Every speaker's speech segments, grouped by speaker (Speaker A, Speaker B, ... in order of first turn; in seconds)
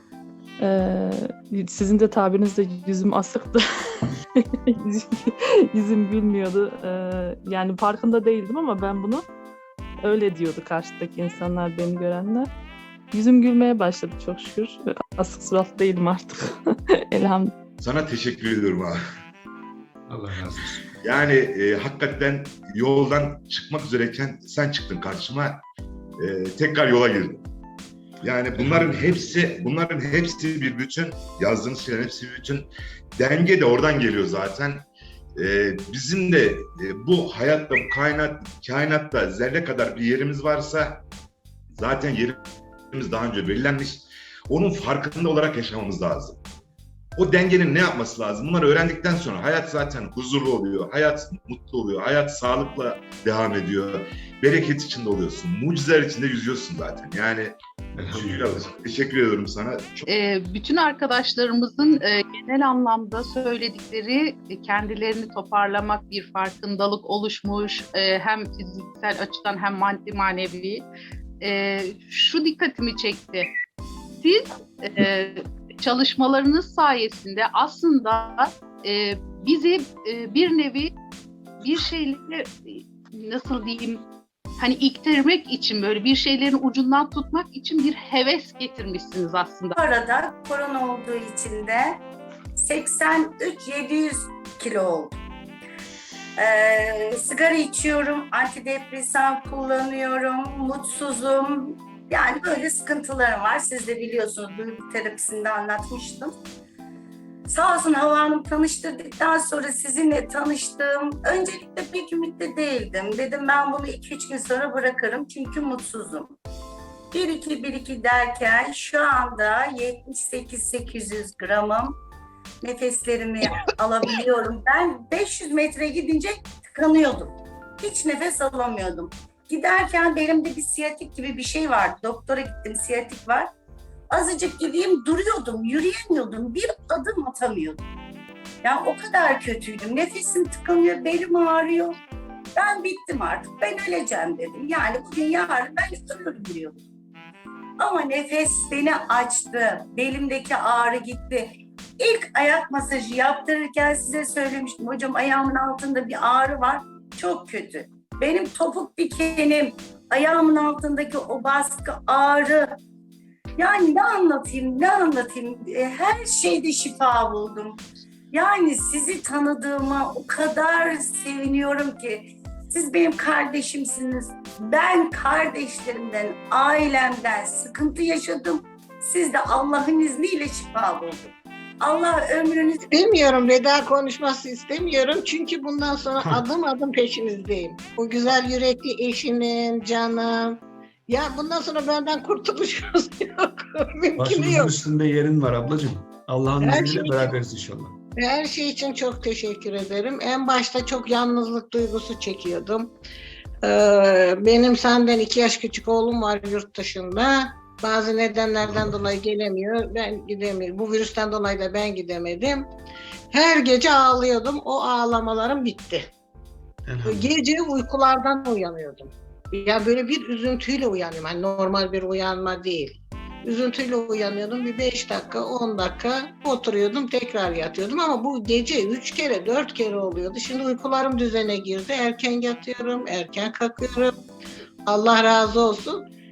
Speaker A: 0.6-3.6, 4.4-9.3, 10.0-12.5, 13.1-17.5
Speaker B: 17.8-19.0, 21.0-25.6, 26.2-27.4, 28.2-34.8, 35.4-41.0, 41.8-42.4, 42.9-46.4, 47.2-60.1
Speaker C: 20.1-20.8, 28.6-29.2, 58.0-58.7, 194.2-198.0, 208.6-209.1, 216.9-217.3
Speaker D: 60.1-70.8, 71.4-73.5, 74.2-80.9, 81.6-84.0, 84.6-89.8
Speaker E: 89.8-92.0, 92.6-95.2, 96.4-106.3, 107.5-116.4, 117.1-122.0, 122.6-133.5, 134.1-137.8, 138.6-142.0, 142.6-146.8, 147.8-162.8, 163.6-167.8, 168.3-181.3, 181.8-182.9
Speaker F: 182.9-190.6, 191.1-194.8, 196.6-197.3, 198.2-202.9, 203.6-212.7, 213.3-216.1, 217.1-234.2, 234.9-236.0